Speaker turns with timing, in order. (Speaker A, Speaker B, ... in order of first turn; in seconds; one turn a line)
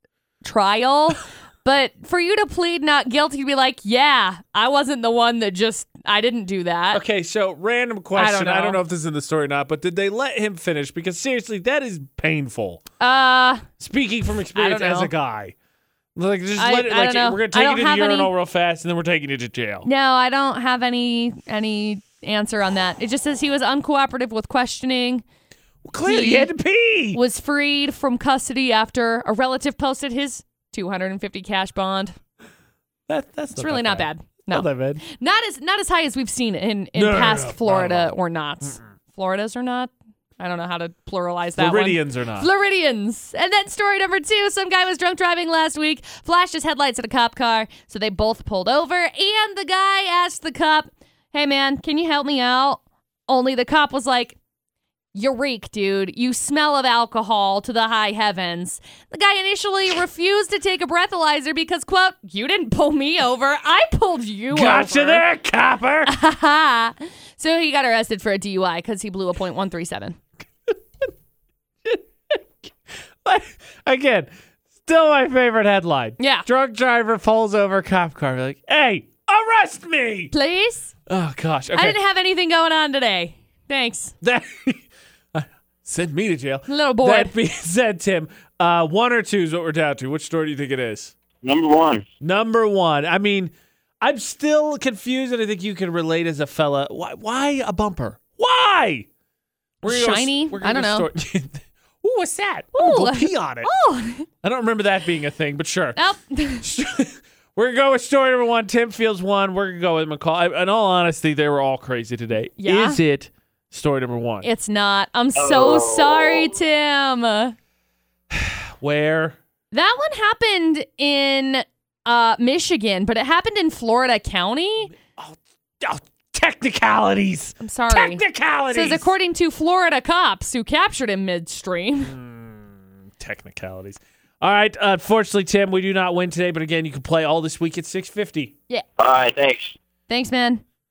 Speaker A: 0.4-7.0
Speaker B: 6.9-12.8
Speaker A: 8.1-8.8
Speaker A: 13.0-13.7
Speaker B: 13.8-15.5
Speaker A: 14.5-15.1
Speaker B: 16.1-19.9
Speaker A: 16.6-18.3
Speaker A: 19.8-25.2
Speaker B: 25.8-27.2
Speaker A: 26.1-26.5
Speaker A: 27.1-32.1
Speaker B: 33.1-35.0
Speaker A: 33.6-54.4
Speaker B: 36.9-38.8
Speaker B: 41.6-42.5
Speaker A: 55.1-65.2
Speaker B: 64.5-66.1
Speaker A: 66.0-70.2
Speaker B: 70.7-71.1
Speaker B: 71.8-72.4
Speaker B: 73.2-74.3
Speaker B: 74.8-80.3
Speaker A: 76.2-76.5
Speaker A: 80.3-80.9
Speaker B: 81.1-82.0
Speaker A: 81.7-84.1
Speaker B: 84.2-91.1
Speaker A: 86.7-87.3
Speaker C: 91.4-92.0
Speaker B: 92.2-99.1
Speaker B: 99.8-103.7
Speaker A: 99.9-101.1
Speaker A: 102.7-104.3
Speaker B: 104.4-106.0
Speaker A: 106.0-106.7
Speaker B: 106.6-114.5
Speaker A: 112.6-113.0
Speaker A: 114.4-117.5
Speaker C: 115.4-116.5
Speaker B: 118.3-119.4
Speaker A: 119.7-124.9
Speaker B: 125.1-129.1
Speaker A: 127.6-132.1
Speaker B: 132.0-138.5
Speaker C: 139.0-139.7
Speaker A: 140.1-140.6